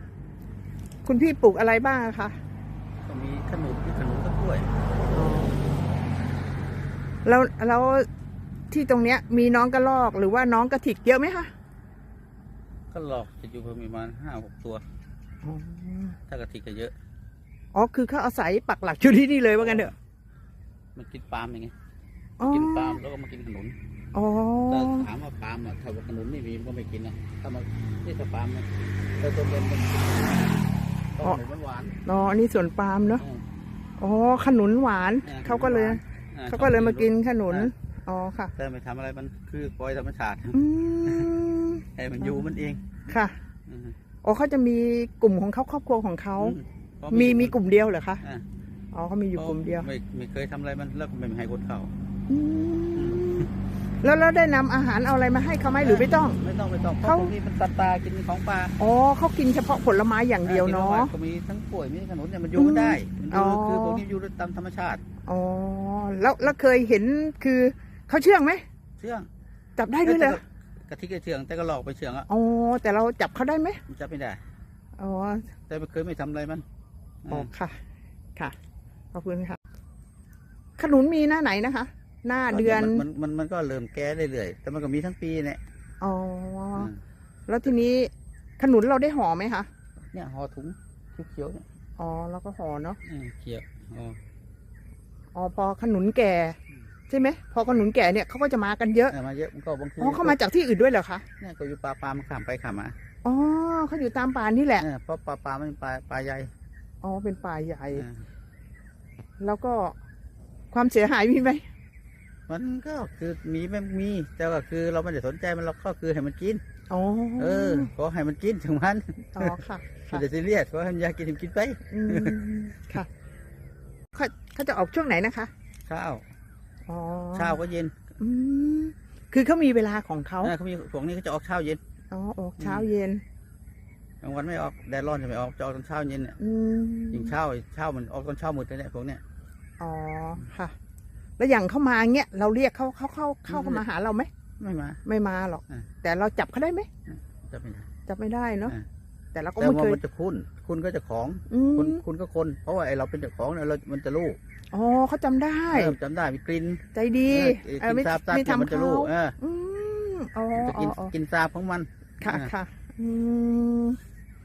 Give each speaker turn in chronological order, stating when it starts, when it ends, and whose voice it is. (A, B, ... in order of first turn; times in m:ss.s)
0:01.0-0:02.4 A
0:03.0-0:04.7 B
0:05.1-0:05.6 A
0:07.2-0:08.1 A
0:08.7-0:11.5 A
0:12.9-0:14.8 B
0:15.4-0:16.2 A
0:16.3-0:17.0 B
0:17.7-0:19.9 A
0:19.6-0:19.9 B
0:21.0-0:21.8 B
0:22.4-0:23.0 A
0:22.5-0:23.8 B
0:24.1-0:25.1 A
0:24.7-0:30.5 B
0:31.2-0:32.0 B
0:32.1-0:33.2 A
0:34.0-0:38.5 A
0:35.2-0:37.7 B
0:38.6-0:41.3 B
0:40.5-0:42.4 A
0:42.0-0:42.9 B
0:43.1-0:43.4 A
0:43.7-0:44.0 B
0:44.2-0:46.6 A
0:46.4-0:47.6 B
0:47.1-0:48.2 A
0:48.9-0:49.9 A
0:49.4-0:51.9 B
0:52.3-0:56.4 A
0:53.0-0:53.4 B
0:55.8-0:58.8 B
0:57.0-0:57.3 A
0:58.8-1:01.1 A
1:00.4-1:05.0 B
1:02.6-1:04.0 A
1:05.3-1:08.6 A
1:09.0-1:09.3 B
1:09.8-1:10.4 A
1:10.0-1:12.3 B
1:12.3-1:13.8 A
1:13.9-1:14.4 B
1:15.0-1:15.5 A
1:15.7-1:16.6 B
1:17.2-1:17.5 B
1:17.3-1:17.8 A
1:19.1-1:19.6 A
1:20.8-1:23.0 A
1:22.5-1:25.6 B
1:26.0-1:26.9 A
1:27.5-1:29.7 A
1:30.1-1:31.6 B
1:32.0-1:33.0 A
1:33.0-1:34.2 B
1:35.4-1:36.6 A
1:37.1-1:39.2 A
1:39.1-1:40.4 B
1:40.0-1:41.2 A
1:41.4-1:43.0 B
1:43.2-1:44.8 A
1:44.8-1:46.5 B
1:47.0-1:48.1 A
1:47.9-1:48.2 B
1:49.4-1:50.0 A
1:50.7-1:51.6 A
1:52.5-1:56.6 B
1:56.9-1:57.9 A
1:57.4-2:02.4 B
1:59.3-2:00.2 A
2:01.9-2:03.1 A
2:04.1-2:05.5 A
2:05.9-2:06.2 B
2:06.9-2:07.6 A
2:07.4-2:08.0 B
2:08.2-2:10.5 A
2:10.4-2:11.8 B
2:12.1-2:13.2 A
2:12.6-2:12.9 B
2:14.2-2:16.4 B
2:16.4-2:17.3 A
2:17.1-2:19.2 B
2:19.8-2:20.7 A
2:21.4-2:24.3 A
2:23.5-2:23.8 B
2:24.6-2:25.0 B
2:25.0-2:26.9 A
2:27.1-2:27.9 B
2:28.1-2:28.8 A
2:29.3-2:30.0 A
2:29.6-2:34.4 B
2:31.5-2:32.0 A
2:34.7-2:36.0 A
2:35.7-2:39.4 B
2:36.9-2:41.1 A
2:40.5-2:42.5 B
2:42.2-2:44.0 A